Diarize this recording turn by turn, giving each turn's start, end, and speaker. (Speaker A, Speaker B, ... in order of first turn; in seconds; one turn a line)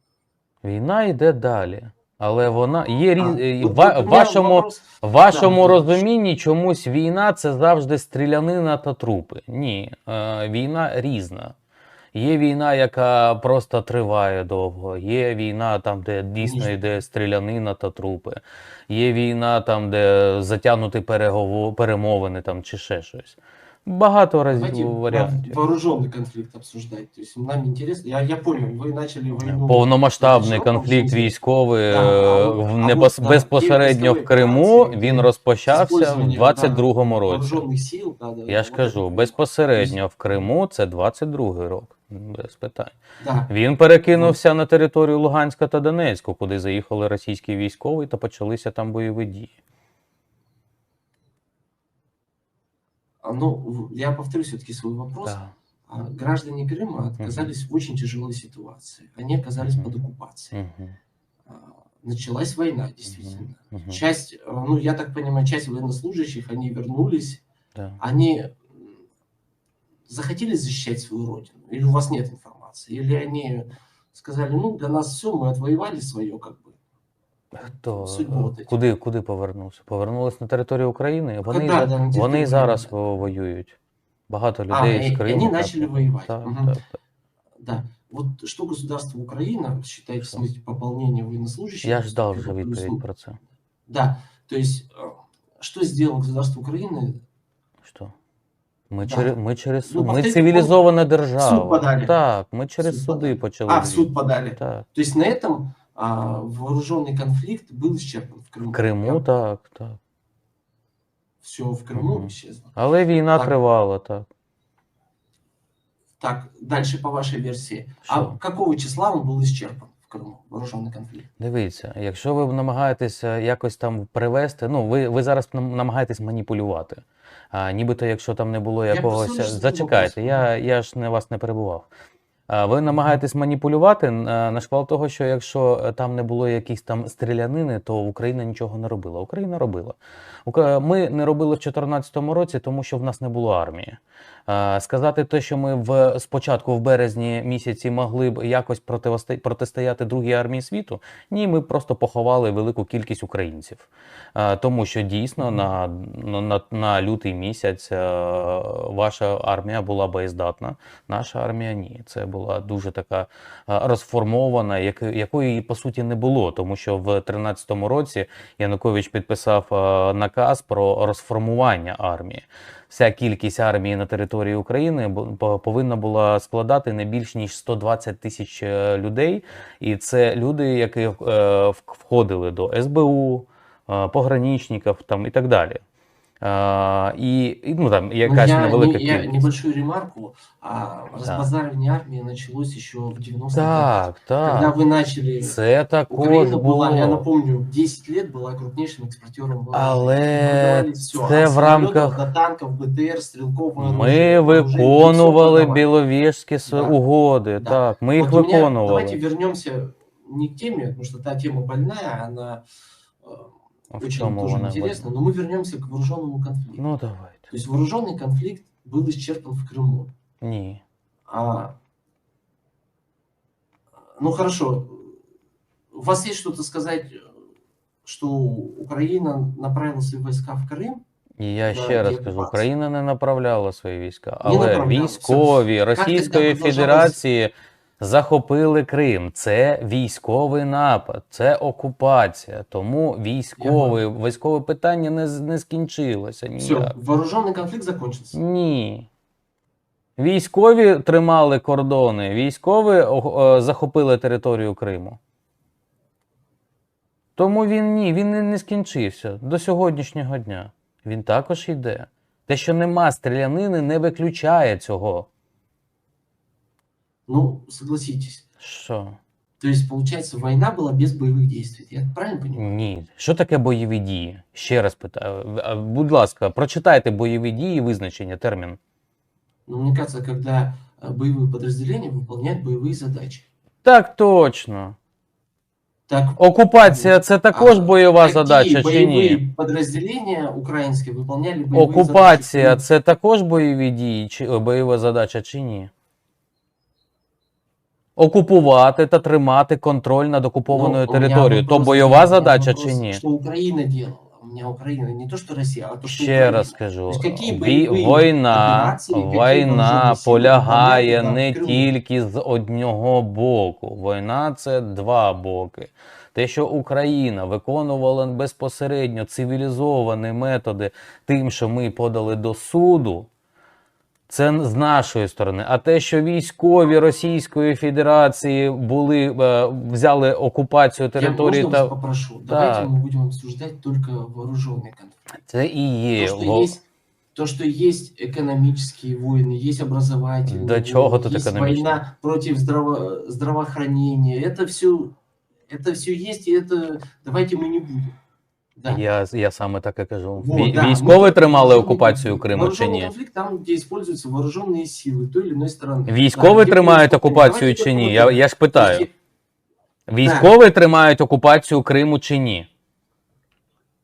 Speaker A: 0.6-11.5
Speaker B: 3.2-6.0
Speaker A: 12.1-25.5
Speaker B: 16.4-16.8
Speaker B: 24.5-31.3
Speaker A: 29.4-37.6
Speaker B: 31.9-40.4
Speaker A: 38.5-43.0
Speaker B: 43.2-43.5
Speaker A: 43.5-49.5
Speaker B: 53.2-60.6
Speaker A: 55.2-55.5
Speaker A: 57.2-57.5
Speaker A: 59.6-59.9
Speaker A: 60.5-61.0
Speaker B: 61.5-67.4
Speaker A: 63.1-64.0
Speaker A: 67.7-68.0
Speaker B: 68.0-69.0
Speaker B: 70.1-76.8
Speaker A: 77.5-83.8
Speaker B: 77.6-78.8
Speaker B: 81.5-83.0
Speaker A: 84.3-87.0
Speaker B: 84.7-86.8
Speaker B: 87.6-93.0
Speaker A: 91.8-93.4
Speaker B: 93.9-97.2
Speaker A: 97.8-98.1
Speaker A: 98.9-104.8
Speaker B: 99.0-99.3
Speaker B: 99.8-100.8
Speaker B: 101.4-102.1
Speaker B: 102.8-109.2
Speaker A: 108.7-110.0
Speaker B: 111.4-112.8
Speaker A: 111.9-114.3
Speaker B: 116.2-121.3
Speaker A: 118.0-118.4
Speaker A: 121.4-131.9
Speaker B: 128.9-130.4
Speaker A: 132.5-185.8
Speaker B: 155.4-155.7
Speaker A: 186.4-189.5
Speaker B: 188.2-195.6
Speaker A: 191.2-191.5
Speaker A: 193.5-194.7
Speaker A: 195.4-197.2
Speaker B: 196.1-205.9
Speaker A: 199.7-202.2
Speaker A: 203.8-209.2
Speaker B: 206.7-206.9
Speaker B: 207.6-212.6
Speaker B: 213.2-216.8
Speaker A: 213.9-215.1
Speaker A: 216.8-217.5
Speaker B: 217.5-220.1
Speaker A: 220.4-220.8
Speaker B: 221.3-221.8
Speaker B: 224.2-225.2
Speaker B: 225.9-227.3
Speaker B: 228.0-231.0
Speaker A: 231.4-246.9
Speaker B: 231.7-232.7
Speaker B: 234.4-237.2
Speaker B: 243.6-244.0
Speaker B: 246.6-248.4
Speaker A: 248.3-249.1
Speaker A: 250.2-255.2
Speaker A: 257.4-265.3
Speaker B: 267.3-268.4
Speaker A: 268.6-269.2
Speaker B: 269.6-272.6
Speaker A: 272.6-278.8
Speaker B: 279.7-283.4
Speaker A: 283.8-284.9
Speaker B: 286.1-292.8
Speaker A: 286.4-289.4
Speaker A: 291.7-295.9
Speaker A: 298.2-303.2
Speaker B: 300.7-311.9
Speaker A: 306.1-323.3
Speaker A: 324.3-331.9
Speaker B: 331.1-335.2
Speaker A: 332.5-332.9
Speaker A: 335.4-336.7
Speaker B: 336.2-336.8
Speaker B: 337.3-345.1
Speaker A: 340.5-342.0
Speaker B: 345.7-348.1
Speaker B: 348.8-349.0
Speaker A: 348.9-353.1
Speaker B: 350.4-359.1
Speaker A: 356.1-359.1
Speaker A: 360.1-362.7
Speaker B: 360.2-360.5